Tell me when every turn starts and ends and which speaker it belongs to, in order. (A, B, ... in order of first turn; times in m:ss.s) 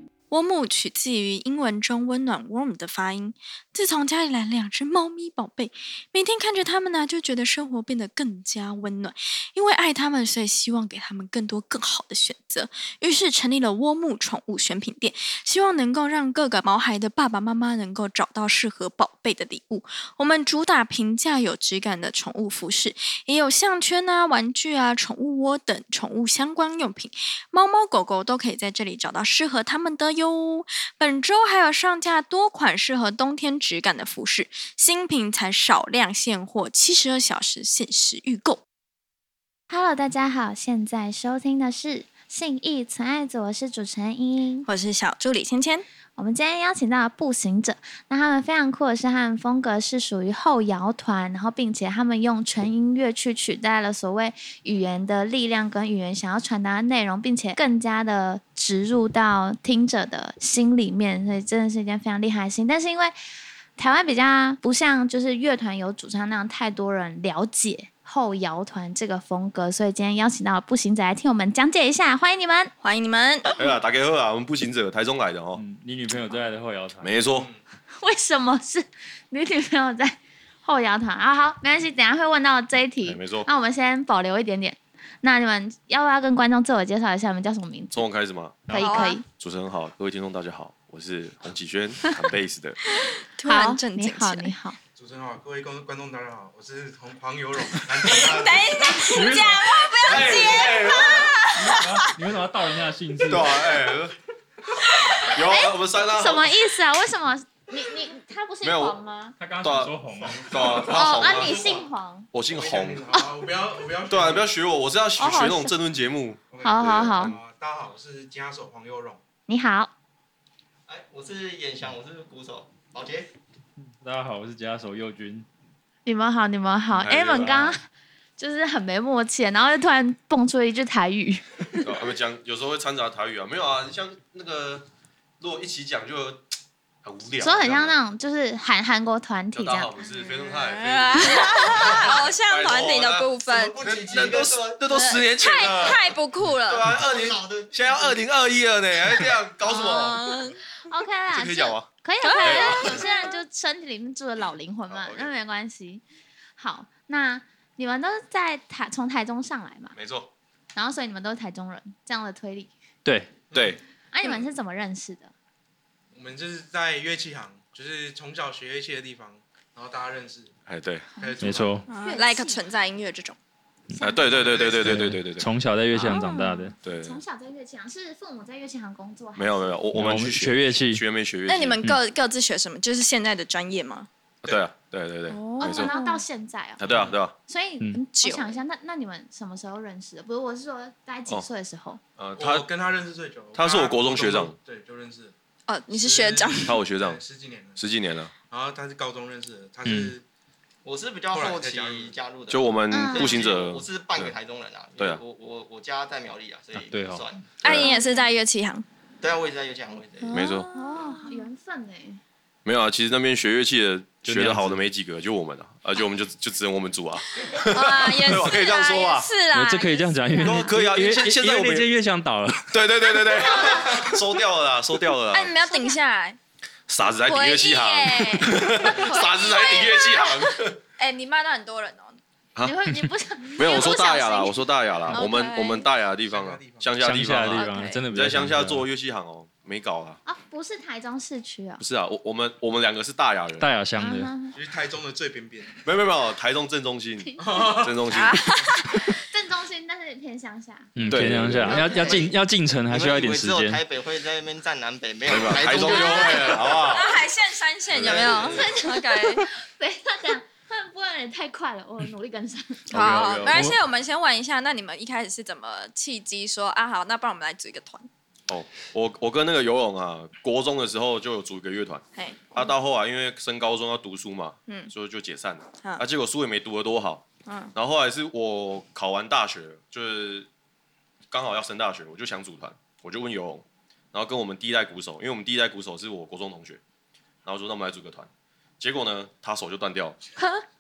0:00.3-0:38.6 A
0:39.7-0:44.7 B
0:44.7-0:45.9 A
0:46.2-1:03.1 B
1:03.8-1:12.7 B
1:12.8-1:13.5 A
1:13.6-1:15.6 C
1:15.6-1:17.2 D
1:17.0-1:17.5 C
1:17.3-1:17.6 E
1:18.0-1:28.1 B
1:23.0-1:23.5 C
1:27.9-1:28.7 C
1:28.7-1:29.2 D
1:28.7-1:29.2 B
1:28.7-1:29.2 A
1:29.3-1:32.8 C
1:33.4-1:34.5 A
1:33.5-1:34.8 B
1:35.0-1:39.2 E
1:37.8-1:38.3 D
1:38.0-1:42.1 A
1:39.0-1:39.8 D
1:40.0-1:41.4 C
1:41.6-1:43.7 D
1:43.3-1:44.2 C
1:44.9-1:45.3 A
1:45.3-1:46.5 C
1:45.3-1:49.4 B
1:48.6-1:49.0 C
1:49.4-1:50.6 D
1:49.6-1:49.9 C
1:50.2-1:51.8 E
1:50.5-1:51.6 C
1:50.8-1:52.3 B
1:52.3-1:53.1 C
1:52.5-1:54.5 E
1:54.1-1:57.4 C
1:55.2-1:55.8 B
1:56.5-1:59.2 E
1:56.6-1:57.4 B
1:59.5-1:59.9 B
2:00.9-2:03.3 F
2:04.0-2:05.5 D
2:06.1-2:07.8 B
2:06.9-2:07.7 C
2:08.4-2:11.9 B
2:11.8-2:14.9 C
2:15.4-2:16.5 C
2:17.0-2:18.0 C
2:17.4-2:19.9 B
2:19.5-2:23.3 C
2:20.3-2:23.8 A
2:23.5-2:25.0 F
2:23.8-2:26.1 C
2:24.9-2:26.9 A
2:26.7-2:30.2 C
2:27.0-2:28.2 F
2:29.7-2:30.6 A
2:30.8-2:36.0 B
2:31.3-2:31.9 C
2:32.2-2:33.2 A
2:32.4-2:33.0 C
2:34.9-2:35.3 C
2:36.6-2:40.0 B
2:39.9-2:40.3 C
2:40.8-2:42.7 B
2:43.0-2:43.3 D
2:43.5-2:43.8 E
2:43.5-2:43.8 C
2:44.1-2:45.3 B
2:46.1-2:50.5 E
2:50.7-2:51.1 C
2:51.2-2:51.8 E
2:51.4-2:51.9 D
2:51.9-2:53.4 A
2:51.9-2:52.6 B
2:53.9-2:54.3 B
2:54.0-2:55.5 C
2:54.2-2:55.0 E
2:54.7-2:56.8 D
2:56.0-2:59.7 B
2:56.8-2:57.2 C
2:59.4-3:01.8 C
2:59.9-3:01.0 D
3:01.5-3:04.1 A
3:04.4-3:05.9 C
3:05.4-3:06.9 B
3:05.4-3:06.2 A
3:06.8-3:07.3 C
3:06.8-3:07.2 E
3:07.4-3:12.0 B
3:08.2-3:08.6 A
3:12.2-3:12.7 C
3:12.4-3:15.3 E
3:13.5-3:14.6 C
3:15.7-3:16.8 A
3:15.9-3:17.8 E
3:16.6-3:17.2 C
3:17.8-3:18.3 C
3:18.5-3:20.2 E
3:19.8-3:20.1 D
3:20.8-3:27.5 F
3:21.3-3:22.2 E
3:22.5-3:24.3 C
3:22.9-3:23.4 B
3:26.7-3:27.3 D
3:27.6-3:27.9 C
3:27.6-3:28.8 A
3:27.7-3:28.3 B
3:29.2-3:30.4 F
3:30.2-3:32.2 B
3:30.3-3:30.7 C
3:30.4-3:31.5 A
3:32.6-3:39.3 C
3:34.2-3:34.8 D
3:37.4-3:40.1 A
3:39.5-3:42.8 D
3:40.3-3:40.7 B
3:40.4-3:41.9 C
3:42.7-3:45.5 C
3:43.4-3:44.1 B
3:45.3-3:46.4 A
3:45.7-3:46.0 B
3:46.9-3:50.8 C
3:47.2-3:52.2 A
3:52.6-3:54.6 B
3:53.6-4:00.2 C
3:55.1-3:55.9 A
3:56.2-3:57.0 E
3:57.0-3:58.8 D
3:57.5-3:58.0 A
4:00.3-4:01.8 B
4:01.8-4:03.7 C
4:03.6-4:04.3 D
4:04.0-4:04.5 B
4:04.5-4:05.7 E
4:05.8-4:08.4 C
4:07.3-4:07.6 B
4:07.4-4:08.0 E
4:08.1-4:08.8 A
4:09.1-4:10.9 B
4:11.0-4:13.8 D
4:11.1-4:11.9 C
4:11.7-4:12.3 B
4:11.9-4:12.4 F
4:12.9-4:16.9 F
4:15.2-4:17.2 C
4:15.7-4:19.5 A
4:17.9-4:18.6 C
4:18.0-4:18.6 F
4:18.5-4:22.9 B
4:22.9-4:23.7 C
4:22.9-4:28.1 A
4:28.5-4:40.5 C
4:32.2-4:32.6 A
4:37.5-4:37.7 A
4:41.3-4:46.8 C
4:47.4-4:48.3 C
4:48.8-4:50.2 C